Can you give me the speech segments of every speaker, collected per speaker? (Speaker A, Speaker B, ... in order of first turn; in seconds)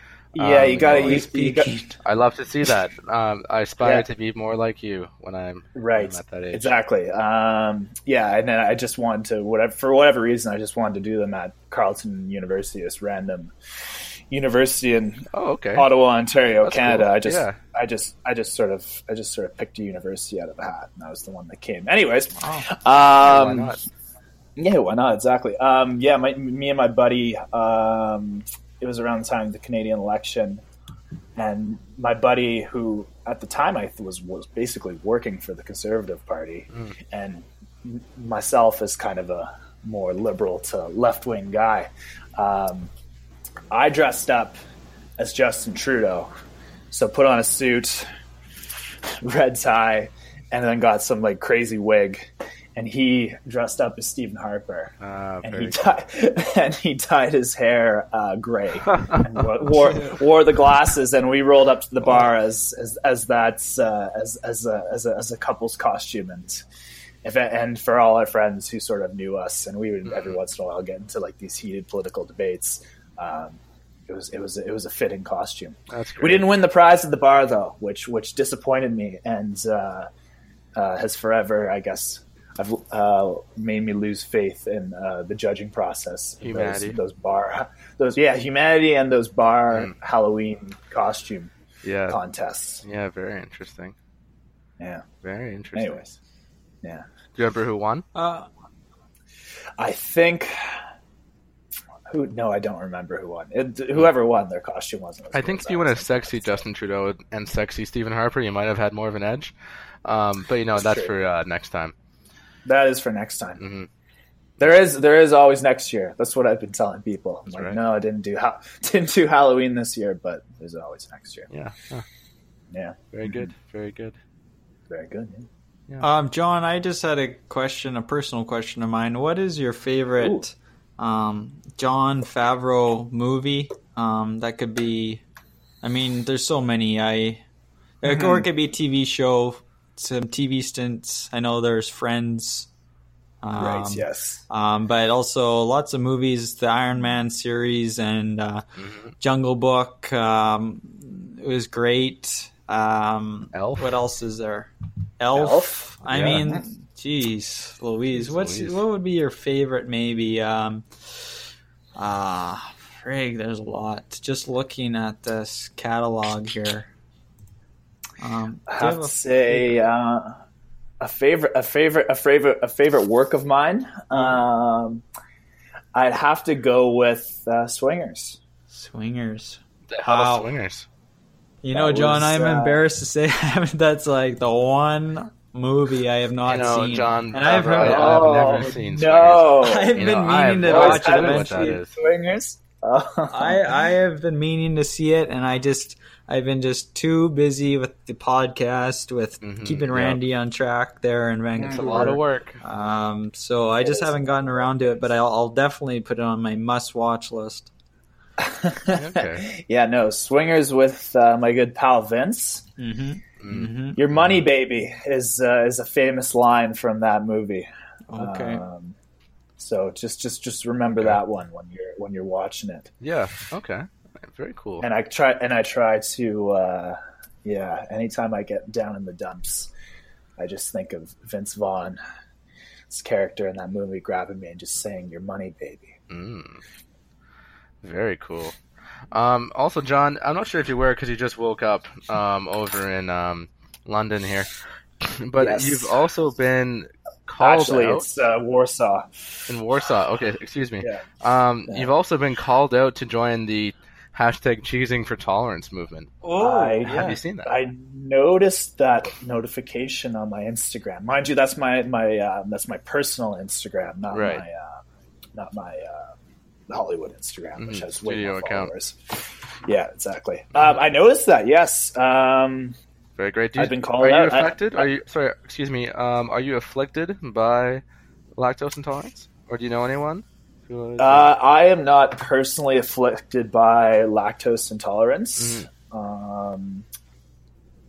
Speaker A: 0.3-1.8, 3.8-4.1, 5.7-13.5, 14.3-23.7, 24.6-30.6, 31.4-42.9, 43.7-44.6, 45.2-46.3, 46.9-48.1, 49.2-66.6, 67.2-80.1, 80.8-91.5, 92.1-92.8, 94.8-95.0, 95.7-96.1, 99.8-100.5, 102.1-106.6, 110.7-111.1, 112.6-113.6, 114.6-121.5, 122.7-123.5, 124.9-125.5, 138.0-138.4, 143.6-144.4, 155.3-156.6, 168.7-170.4, 171.0-175.0, 175.9-178.4, 181.7-182.8, 187.8-190.0, 190.6-193.7, 201.6-202.2, 203.8-204.6, 208.4-212.7, 213.9-218.9, 219.6-222.9, 224.8-229.7, 230.4-232.0, 232.9-235.9, 245.4-245.9, 247.4-249.1, 256.4-264.8, 265.3-266.1, 266.7-272.8, 273.6-274.9, 281.0-286.9
Speaker B: 0.3-1.2, 2.0-6.7, 15.3-15.9, 16.6-17.6, 23.2-23.8, 55.0-55.8, 58.9-59.2, 70.1-70.3, 75.9-76.5, 86.4-87.0, 91.8-92.2, 92.8-93.9, 95.2-96.0, 97.3-98.0, 105.3-109.5, 110.0-111.9, 113.6-113.9, 117.5-117.8, 121.5-122.0, 123.1-124.2, 148.8-149.1, 153.5-153.9, 156.1-156.4, 158.1-158.8, 179.9-180.9, 186.4-191.9, 199.4-200.2, 201.6-202.6, 208.9-209.5, 213.4-214.4, 223.0-224.9, 236.1-236.6, 237.8-238.5, 239.1-248.1, 249.5-256.1, 256.9-257.5, 264.1-264.4, 267.6-268.7, 273.2-277.8, 278.4-281.3, 285.4-285.7
Speaker C: 0.9-2.0, 22.4-22.7, 98.1-98.5, 126.0-135.2, 135.8-137.4, 138.0-142.7, 143.4-148.6, 149.2-161.3, 161.9-166.9, 168.2-169.8, 178.7-180.5, 181.6-188.7, 189.6-191.8, 193.3-207.7, 212.8-214.0, 218.1-218.6, 256.2-257.2